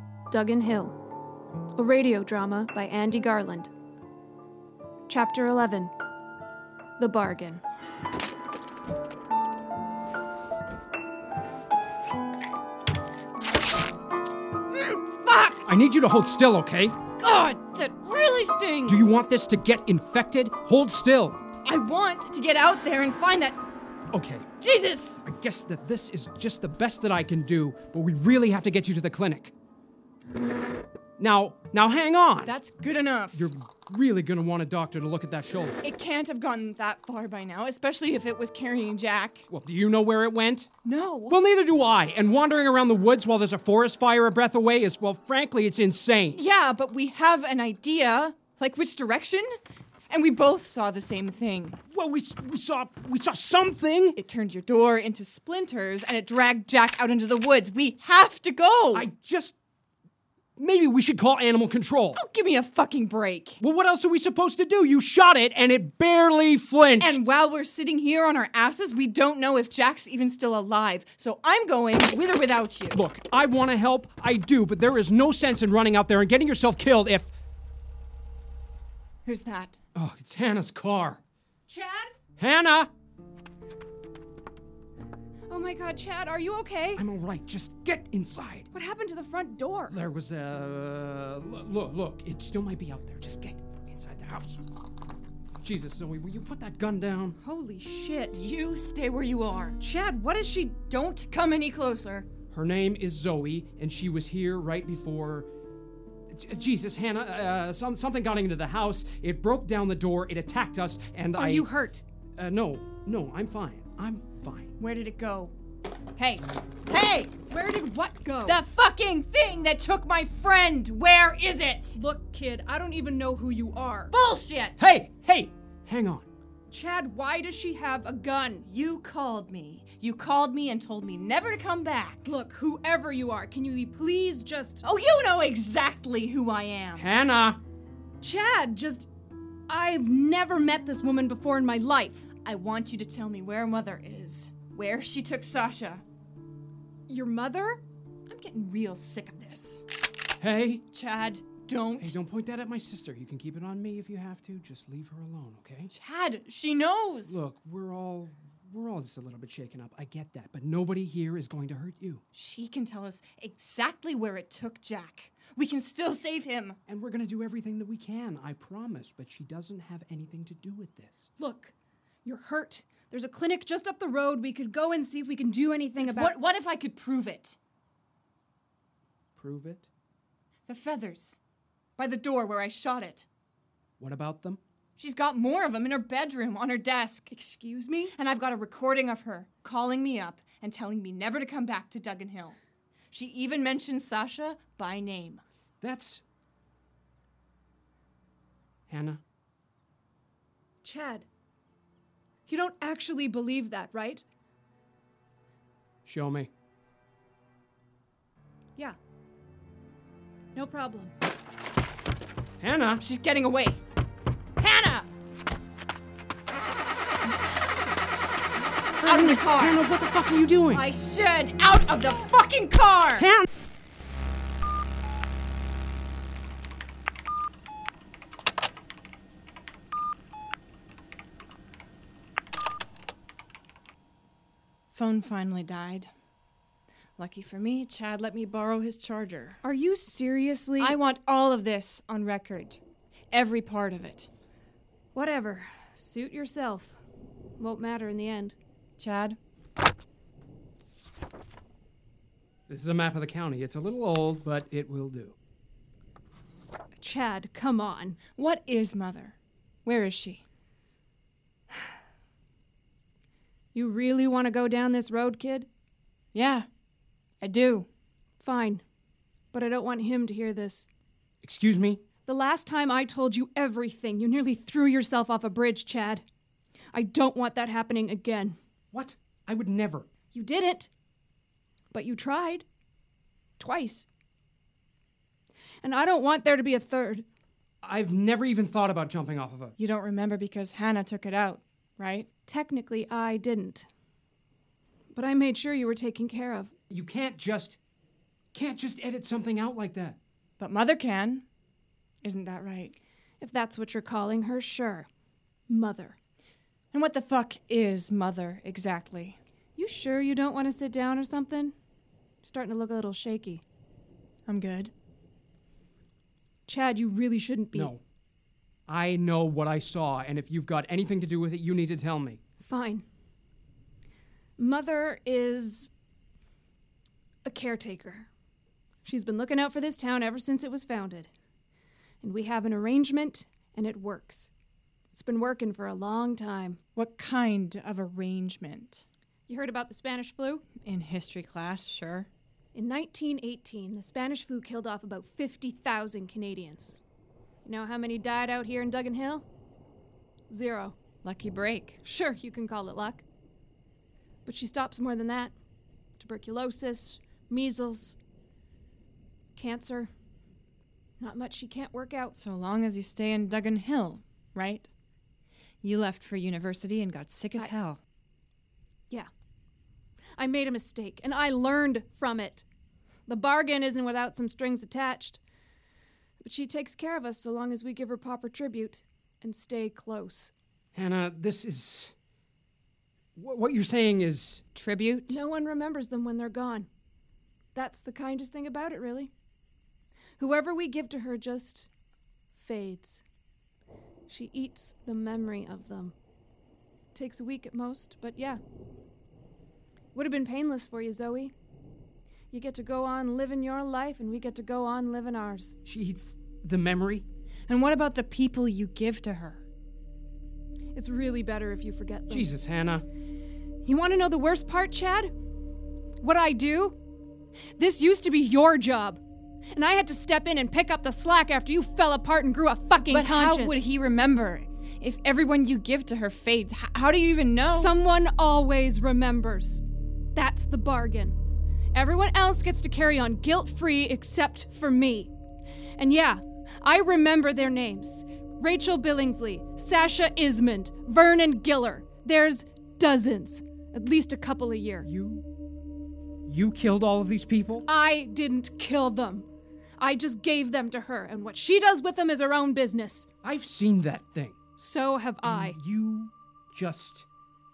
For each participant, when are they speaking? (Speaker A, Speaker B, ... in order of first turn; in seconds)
Speaker A: 0.3-1.0, 1.8-3.7, 5.1-5.9, 7.0-7.6, 81.7-82.1, 85.5-87.1, 88.7-90.0, 97.4-98.4, 99.8-100.8, 111.4-112.0, 117.5-118.6, 122.0-124.1, 126.7-128.7, 132.2-134.8, 138.2-139.1, 139.7-142.2, 147.1-147.8, 171.4-171.7, 172.2-176.3, 187.3-188.1, 200.8-201.3, 202.5-204.3, 210.6-211.1, 239.6-241.0, 245.1-247.0, 247.6-248.6, 257.0-258.2, 263.7-265.7, 268.4-268.8, 269.5-270.9, 272.2-276.2, 276.9-278.6, 280.3-280.9, 281.9-282.7, 283.6-284.1, 285.8-287.2, 292.5-293.9, 295.1-296.7, 303.4-305.1, 305.7-306.2, 309.8-311.7, 312.4-313.6, 316.7-317.9, 322.6-323.1, 324.6-325.9, 327.4-328.3, 329.0-331.3, 332.2-334.5, 335.1-336.8, 339.5-340.6, 342.7-347.0, 347.6-349.5, 350.5-351.0, 352.0-353.2, 354.4-355.5, 356.2-358.2, 359.6-360.1, 361.2-362.4, 370.4-372.7, 373.3-375.4, 376.4-380.5, 385.3-386.9, 387.8-389.3, 390.4-391.9, 392.5-393.2, 394.3-396.1, 397.1-398.6, 400.1-401.5, 402.5-405.8, 410.9-412.5, 413.8-415.3, 416.2-417.0, 417.8-419.2, 419.7-423.8, 427.7-429.8, 430.4-431.4, 431.9-435.3, 436.0-445.1, 447.9-449.5, 450.0-453.3, 454.8-455.8
Speaker B: 14.8-15.7, 17.2-19.1, 21.6-23.6, 24.6-25.2, 32.5-33.5, 35.8-39.5, 40.9-41.4, 46.4-49.5, 50.1-51.8, 54.2-59.1, 62.1-63.6, 67.0-73.0, 79.2-79.8, 98.3-99.8, 100.9-102.3, 114.8-115.5, 116.2-117.3, 118.5-122.0, 124.1-124.8, 128.7-132.3, 134.8-137.1, 142.4-146.0, 148.3-149.8, 150.9-152.2, 155.9-157.4, 162.3-166.8, 176.0-177.6, 180.7-181.4, 182.0-183.3, 185.0-187.3, 188.2-192.6, 193.1-195.4, 213.0-213.8, 214.6-215.1, 219.0-219.8, 220.7-223.3, 234.9-236.1, 237.2-239.6, 240.8-242.8, 243.3-244.3, 249.0-249.4, 258.4-260.4, 266.3-266.7, 267.4-267.9, 289.8-292.3, 300.6-301.4, 302.2-303.0, 306.9-309.4, 314.5-314.9, 337.0-339.1, 340.8-342.3, 351.2-352.0, 362.4-364.9, 365.8-368.0, 384.8-385.4, 407.7-409.6, 423.1-427.9
Speaker C: 15.7-17.0, 18.9-21.4, 24.1-24.5, 25.2-29.5, 31.2-32.5, 33.3-35.8, 39.5-40.7, 41.3-46.4, 51.9-54.2, 58.9-59.6, 60.6-62.2, 63.6-67.2, 72.9-77.3, 80.0-81.2, 82.4-82.9, 87.0-88.7, 89.9-94.6, 95.6-97.4, 102.5-105.5, 106.3-111.7, 112.4-114.7, 124.8-126.3, 137.0-137.6, 150.4-150.9, 152.0-155.9, 157.3-162.2, 166.9-171.3, 179.4-179.9, 184.0-184.6, 195.8-196.2, 198.9-199.2, 206.1-206.5, 212.6-213.0, 219.0-220.9, 223.2-223.5, 252.7-255.3, 271.4-272.0, 278.9-280.1, 287.8-289.8, 296.9-297.8, 298.5-300.2, 317.7-318.0, 318.9-322.4, 380.9-382.1, 383.4-384.6, 405.9-407.2, 412.3-413.1, 445.0-445.5, 446.5-447.9, 453.4-454.6, 455.4-457.3